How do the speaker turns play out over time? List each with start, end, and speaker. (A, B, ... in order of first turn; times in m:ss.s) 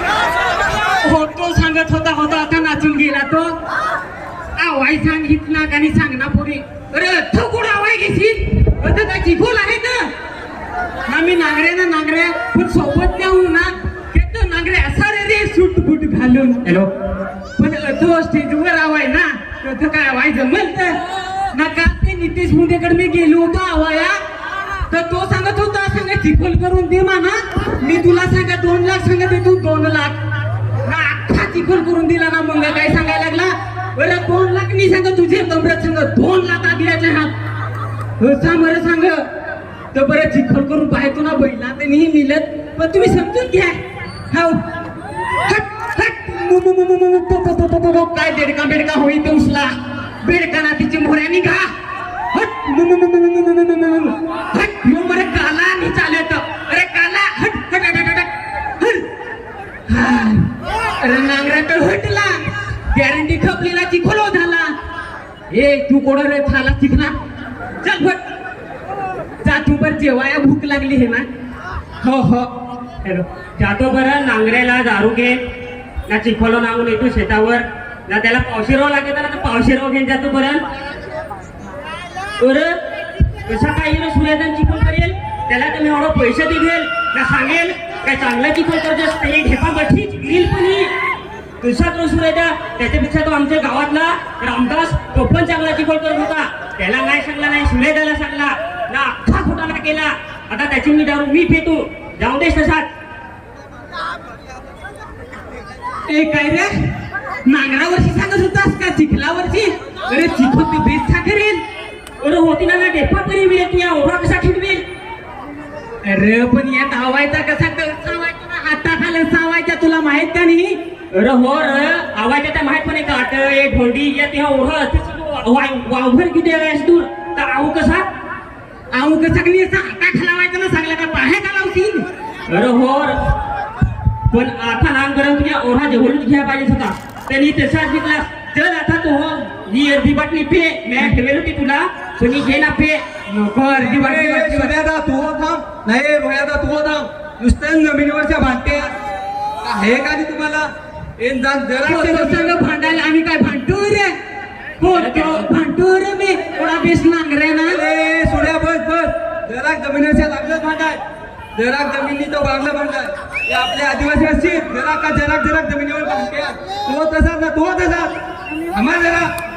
0:01.0-0:03.6 A
0:04.6-0:10.1 A
0:11.0-0:16.6 A
0:16.6-0:16.9 B
0:17.6-0:21.0 A
0:21.5-0:24.2 A
0:24.9-0:30.2 A
0:30.8-0:37.3 A
0:38.2-0:39.2 A
0:39.9-0:44.6 A
0:45.4-0:51.7 A
0:52.3-0:59.0 A
0:59.9-1:04.7 A
1:05.5-1:07.2 A
1:07.8-1:08.2 A
1:09.4-1:11.3 A
1:12.0-1:12.5 A
1:13.0-1:15.4 B
1:16.1-1:20.6 B
1:22.4-1:22.8 B
1:23.3-1:30.9 B
1:31.6-1:42.9 B
1:46.1-1:46.7 A
1:47.4-1:51.6 A
1:52.2-1:54.8 B
1:56.0-2:00.8 A
2:01.1-2:08.1 B
2:08.9-2:12.1 A
2:12.5-2:13.2 B
2:14.3-2:23.0 B
2:23.3-2:24.7 A
2:23.7-2:28.9 C
2:29.6-2:32.6 C
2:31.8-2:34.1 A
2:34.8-2:37.8 A
2:34.9-2:35.4 B
2:37.7-2:41.0 C
2:41.5-2:48.1 C
2:48.7-2:49.3 C